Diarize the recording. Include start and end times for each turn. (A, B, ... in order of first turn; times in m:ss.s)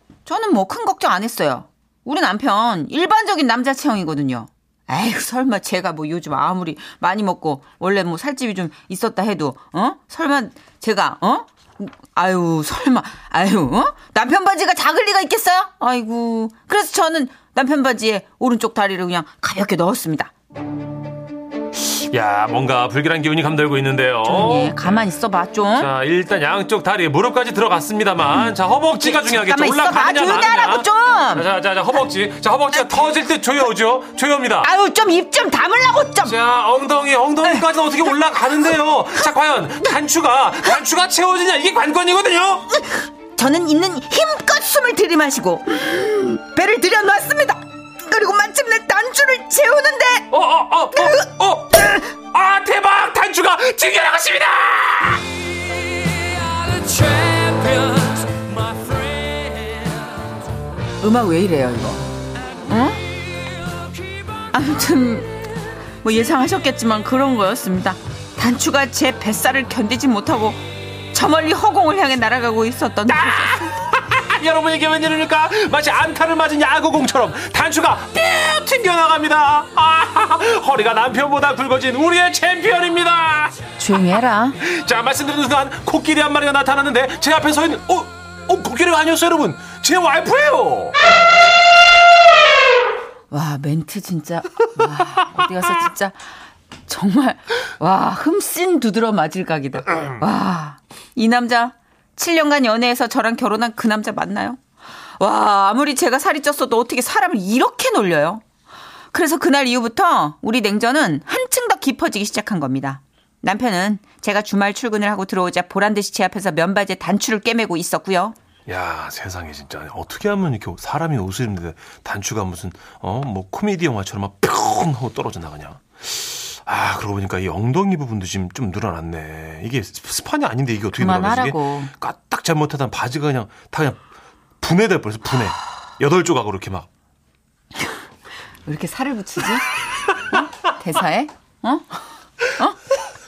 0:00.2-0:20.3 A
0:22.0-0:25.1 B
0:24.2-0:25.9 A
0:25.7-0:34.7 B
0:29.0-0:31.5 A
0:32.8-0:33.1 A
0:34.6-0:36.4 A
0:36.2-0:42.8 B
0:43.3-0:50.3 A
0:50.3-0:55.3 B
0:51.0-0:51.2 A
0:56.6-0:59.6 B
1:01.0-1:02.1 A
1:02.6-1:03.0 A
1:04.5-1:05.3 A
1:06.0-1:13.7 A
1:13.1-1:23.6 B
1:23.8-1:24.6 A
1:24.6-1:31.0 B
1:33.3-1:36.3 A
1:36.8-1:44.6 A
1:45.2-1:48.4 A
1:49.1-1:58.4 A
1:58.7-2:14.0 B
2:10.9-2:11.9 A
2:14.6-2:16.9 B
2:18.6-2:19.6 A
2:20.3-2:22.0 A
2:22.5-2:22.8 A